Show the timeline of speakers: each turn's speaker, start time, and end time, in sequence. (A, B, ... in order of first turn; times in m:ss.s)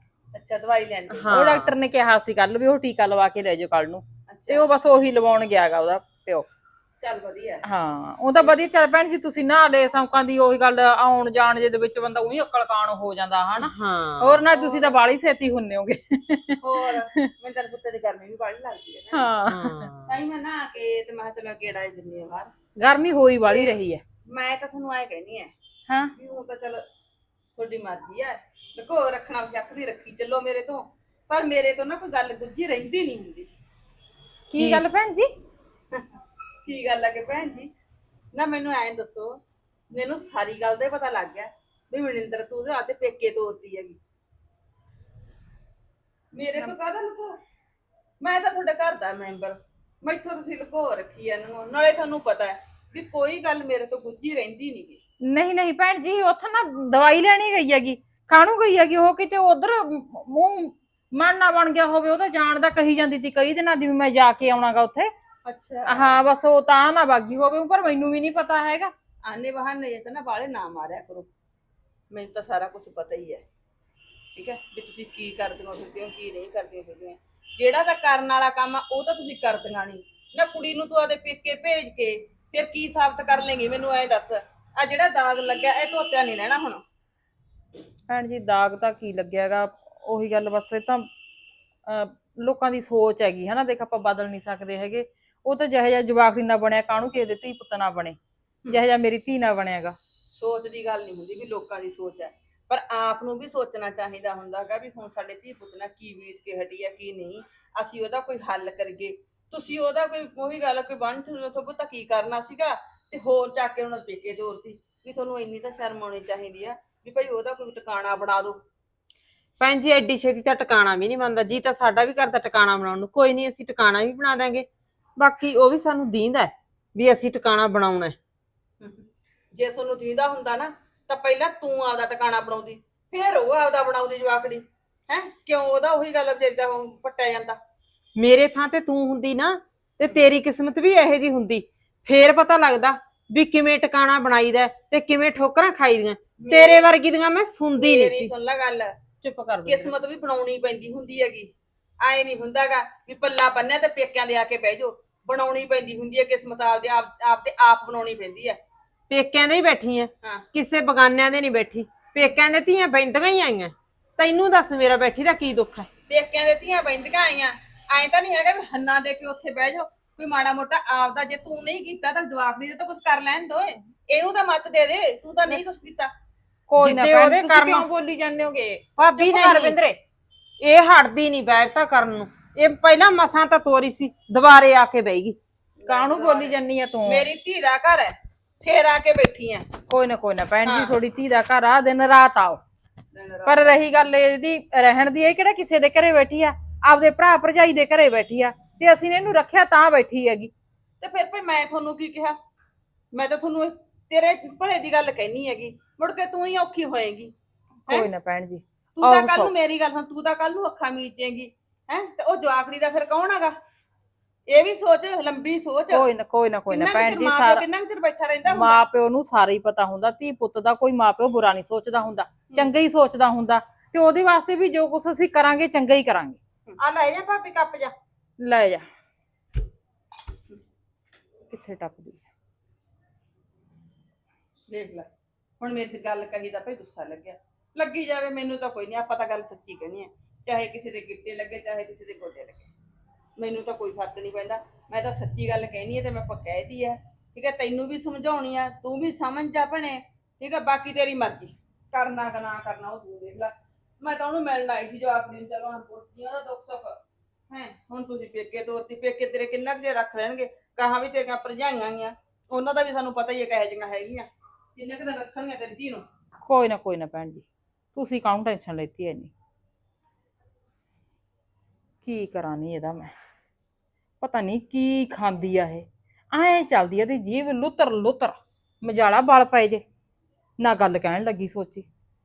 0:00.3-0:01.3 A
0:01.1-0:01.7 B
0:01.3-0:06.5 C
0:04.3-0:04.7 A
0:07.0-0:07.6 A
0:07.6-0:17.3 C
0:13.6-0:14.4 B
0:14.5-0:15.0 A
0:16.6-0:19.3 A
0:19.1-0:19.9 C
0:19.4-0:20.2 B
0:20.1-0:22.5 A
0:22.8-0:24.0 C
0:23.5-0:23.7 A
0:24.3-0:25.5 A
0:26.1-0:26.8 A
0:27.6-0:33.5 A
0:34.5-0:35.3 C
0:34.6-0:34.8 B
0:36.6-0:37.7 A
0:38.3-0:44.0 A
0:46.3-0:47.4 A
0:48.2-0:55.0 A
0:55.3-1:05.1 C
1:05.5-1:06.2 A
1:05.9-1:08.9 C
1:09.2-1:11.3 A
1:12.1-1:13.4 A
1:14.4-1:26.8 A
1:28.1-1:31.1 C
1:31.9-1:38.2 C
1:38.7-1:40.0 C
1:40.3-1:58.6 A
1:59.6-2:04.7 B
2:05.2-2:08.2 B
2:08.8-2:17.6 A
2:18.2-2:28.3 B
2:26.4-2:26.8 A
2:27.8-2:28.9 A
2:29.2-2:29.9 C
2:29.6-2:31.5 A
2:32.0-2:38.6 A
2:39.1-2:45.9 B
2:46.1-2:56.1 A
2:56.7-3:00.0 C
2:56.8-2:57.9 B
2:59.0-2:59.8 B
3:00.6-3:05.4 B
3:05.8-3:09.7 A
3:05.9-3:07.3 C
3:09.9-3:12.6 C
3:10.6-3:10.9 A
3:13.1-3:13.8 A
3:13.4-3:20.5 C
3:21.0-3:22.4 A
3:23.1-3:27.3 A
3:27.9-3:29.5 C
3:29.0-3:33.5 A
3:34.5-3:36.1 A
3:35.9-3:37.6 C
3:36.7-3:38.8 A
3:38.5-3:46.4 C
3:46.8-3:47.9 B
3:48.4-3:48.8 C
3:51.5-3:52.2 C
3:54.7-3:55.1 A
3:55.6-4:02.7 A
4:03.4-4:26.0 A
4:26.4-4:27.4 C
4:27.9-4:29.3 C
4:32.0-4:33.1 C
4:34.2-4:39.8 C
4:40.6-4:41.8 C